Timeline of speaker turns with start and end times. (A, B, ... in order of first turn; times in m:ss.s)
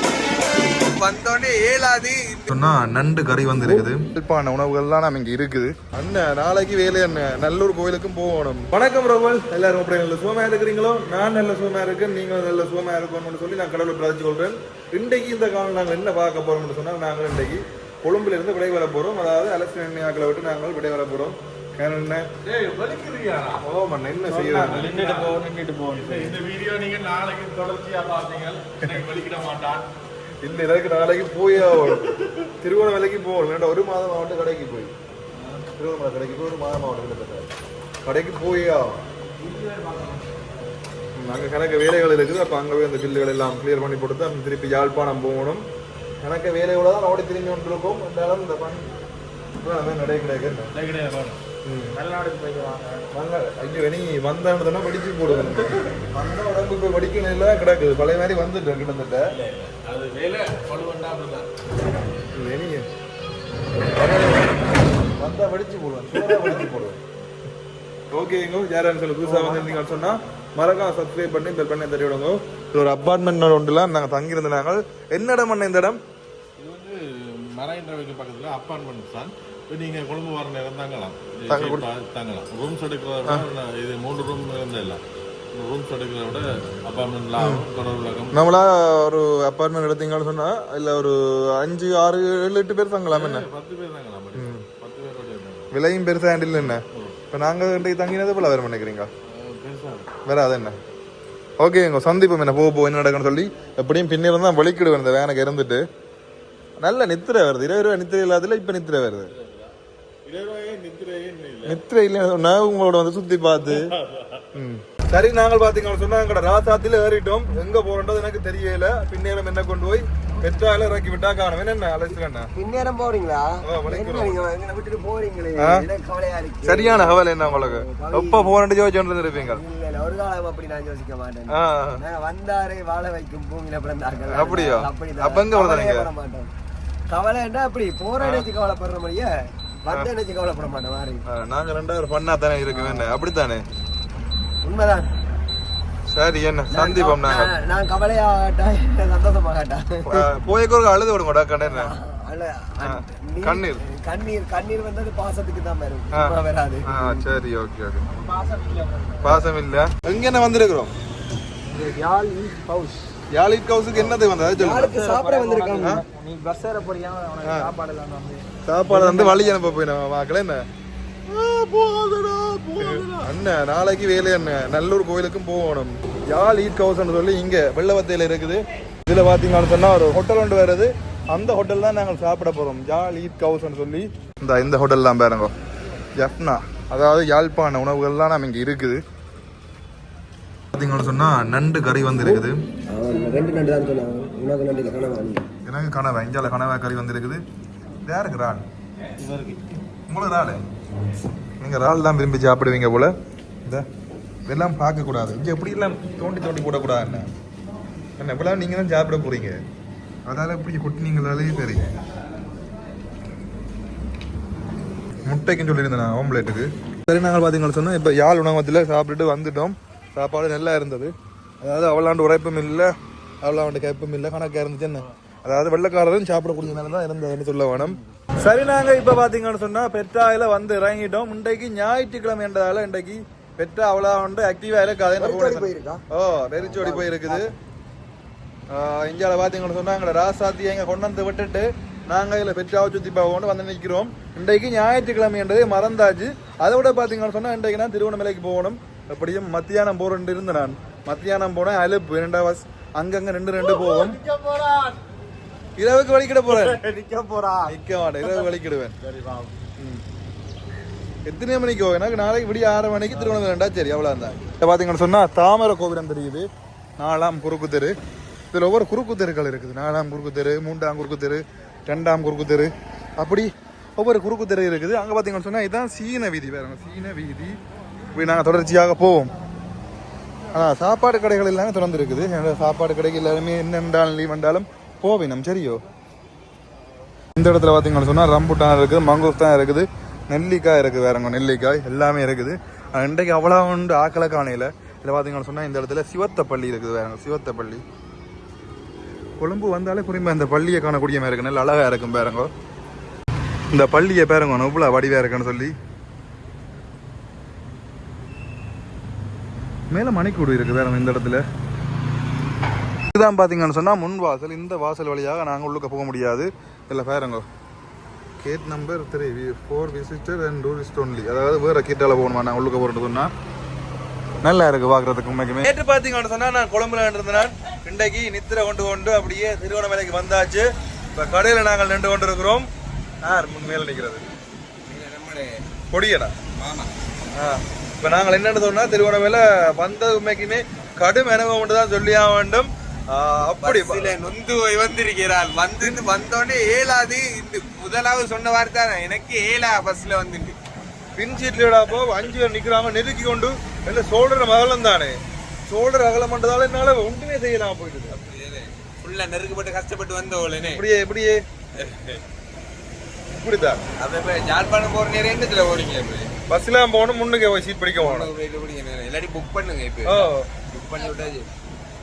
0:01.0-0:02.5 A
0:02.5-0:22.2 B
0:22.5-0:23.6 C
0:23.6-0:24.9 B
0:24.3-0:29.9 C
0:24.8-0:26.2 D
0:30.4-0:34.9 B
0:35.6-0:37.5 B
0:38.0-0:39.0 B
0:39.4-0:40.2 C
0:41.2-0:45.6 B
0:46.2-0:48.8 B
0:49.6-0:50.7 B
0:50.8-0:51.4 C
0:51.6-0:52.0 B
0:52.0-0:52.8 D
0:52.2-0:52.9 C
0:53.1-0:59.3 B
0:59.4-1:01.5 C
1:02.3-1:02.8 B
1:04.0-1:04.4 B
1:05.2-1:07.0 B
1:08.1-1:16.0 B
1:16.6-1:25.0 C
1:21.5-1:21.9 B
1:25.6-1:28.4 C
1:27.4-1:27.6 B
1:28.3-1:33.4 B
1:33.1-1:35.7 C
1:34.4-1:34.6 B
1:35.7-1:39.1 B
1:36.6-1:37.1 C
1:39.4-1:40.1 C
1:40.2-1:40.8 B
1:41.6-1:45.8 B
1:46.8-1:49.3 B
1:49.4-1:49.7 C
1:50.3-1:51.8 C
1:51.6-1:53.8 B
1:54.1-1:54.4 C
1:54.5-2:02.5 B
2:02.6-2:08.6 E
2:03.6-2:04.4 B
2:05.6-2:05.9 B
2:06.6-2:09.6 B
2:09.4-2:16.5 E
2:11.5-2:12.0 B
2:14.3-2:16.1 B
2:17.1-2:19.3 E
2:18.2-2:18.5 B
2:19.8-2:21.2 E
2:21.3-2:23.6 B
2:22.7-2:23.2 E
2:24.6-2:25.1 E
2:26.1-2:27.5 B
2:26.7-2:30.3 E
2:30.0-2:31.9 B
2:31.6-2:37.2 E
2:32.8-2:33.8 B
2:36.1-2:38.0 B
2:38.1-2:39.3 D
2:39.2-2:40.9 B
2:41.7-2:43.0 D
2:43.3-2:45.0 B
2:44.6-2:46.0 E
2:44.9-2:49.4 D
2:47.4-2:47.7 B
2:48.6-2:50.6 B
2:51.3-2:52.9 D
2:52.8-3:05.5 B
3:06.2-3:09.0 B
3:10.7-3:12.6 B
3:12.9-3:15.5 E
3:15.7-3:17.4 B
3:18.0-3:18.6 B
3:19.2-3:19.6 C
3:20.1-3:20.6 B
3:21.6-3:23.1 B
3:24.5-3:27.3 B
3:28.2-3:29.6 B
3:30.2-3:31.9 B
3:35.3-3:57.5 B
3:55.2-3:56.0 E
3:56.6-3:57.4 E
3:58.7-4:14.2 B
4:14.3-4:14.9 C
4:15.8-4:16.8 B
4:16.9-4:17.6 D
4:17.6-4:19.0 B
4:21.2-4:26.5 B
4:27.0-4:27.9 B
4:28.5-4:37.6 B
4:38.2-4:39.3 B
4:40.5-4:45.8 B
4:47.4-4:57.8 B
4:59.4-5:02.5 B
5:03.7-5:05.7 B
5:09.9-5:11.4 B
5:13.1-5:17.4 B
5:18.4-5:23.3 B
5:24.4-5:32.7 B
5:33.2-5:34.2 B
5:34.9-5:35.6 A
5:35.9-5:36.4 B
5:36.6-5:36.9 A
5:37.4-5:44.1 B
5:43.6-5:50.6 A
5:51.2-5:58.2 B
5:51.8-5:52.2 A
5:58.1-6:00.8 A
6:00.6-6:01.4 B
6:01.8-6:02.2 A
6:03.3-6:03.8 B
6:04.0-6:06.3 A
6:06.5-6:08.3 B
6:08.0-6:11.5 A
6:10.1-6:10.5 B